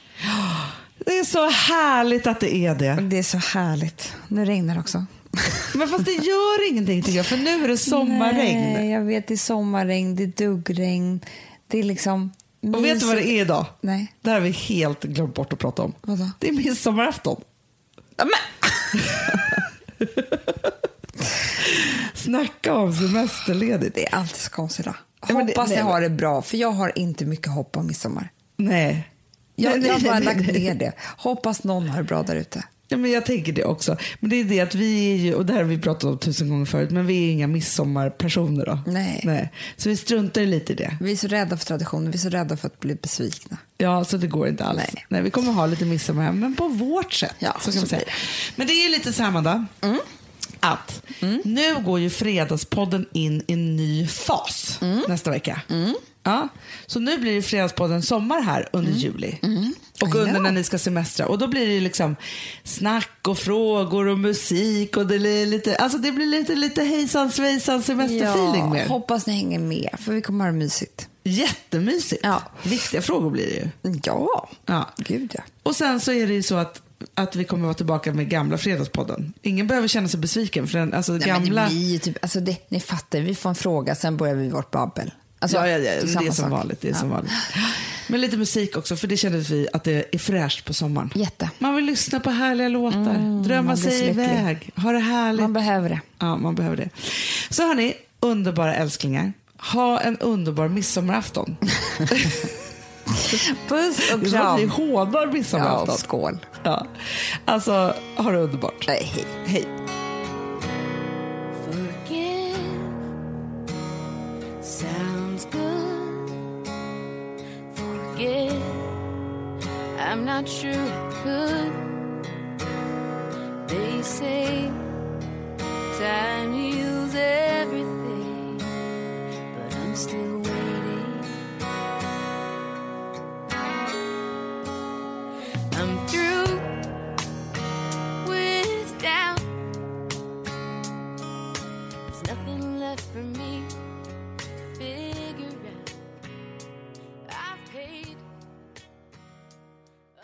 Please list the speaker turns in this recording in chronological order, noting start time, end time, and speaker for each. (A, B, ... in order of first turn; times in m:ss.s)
0:00.3-0:03.0 A
0:03.0-0:05.7 B
0:05.7-0:08.9 A
0:07.1-0:07.3 B
0:07.8-0:14.1 B
0:12.7-0:17.4 A
0:16.0-0:16.4 B
0:18.2-0:19.4 B
0:19.1-0:19.3 A
0:20.0-0:20.7 A
0:21.6-0:24.0 A
0:23.9-0:28.3 B
0:25.3-0:26.0 A
0:28.6-0:29.1 A
0:29.6-0:32.7 B
0:29.6-0:30.7 A
0:32.9-0:41.0 A
0:38.9-0:39.3 B
0:41.0-0:43.6 B
0:43.8-0:49.7 A
0:44.7-0:45.0 B
0:47.4-0:48.2 B
0:49.8-0:50.1 B
0:50.6-0:55.7 A
0:51.2-0:51.4 B
0:54.8-0:55.1 B
0:55.7-0:56.0 B
0:56.2-0:59.4 A
0:58.8-1:00.5 B
1:00.0-1:09.0 A
1:08.0-1:11.1 B
1:11.2-1:13.7 A
1:12.2-1:12.5 B
1:13.8-1:15.5 B
1:14.7-1:15.0 A
1:15.6-1:21.8 A
1:21.2-1:27.3 B
1:25.5-1:35.5 A
1:31.1-1:31.6 B
1:32.9-1:34.5 B
1:35.4-1:36.1 B
1:36.2-1:42.6 A
1:43.1-1:44.8 B
1:44.0-1:46.1 A
1:45.5-1:46.5 B
1:46.6-1:48.9 A
1:48.9-1:49.4 B
1:51.5-1:53.0 C
1:54.6-1:56.4 C
1:57.7-1:59.0 C
2:00.0-2:01.8 C
2:03.6-2:04.8 C
2:05.9-2:08.7 C
2:09.5-2:11.4 C
2:15.7-2:16.8 C
2:18.2-2:19.5 C
2:22.1-2:23.7 C
2:24.8-2:26.0 C
2:27.3-2:28.2 C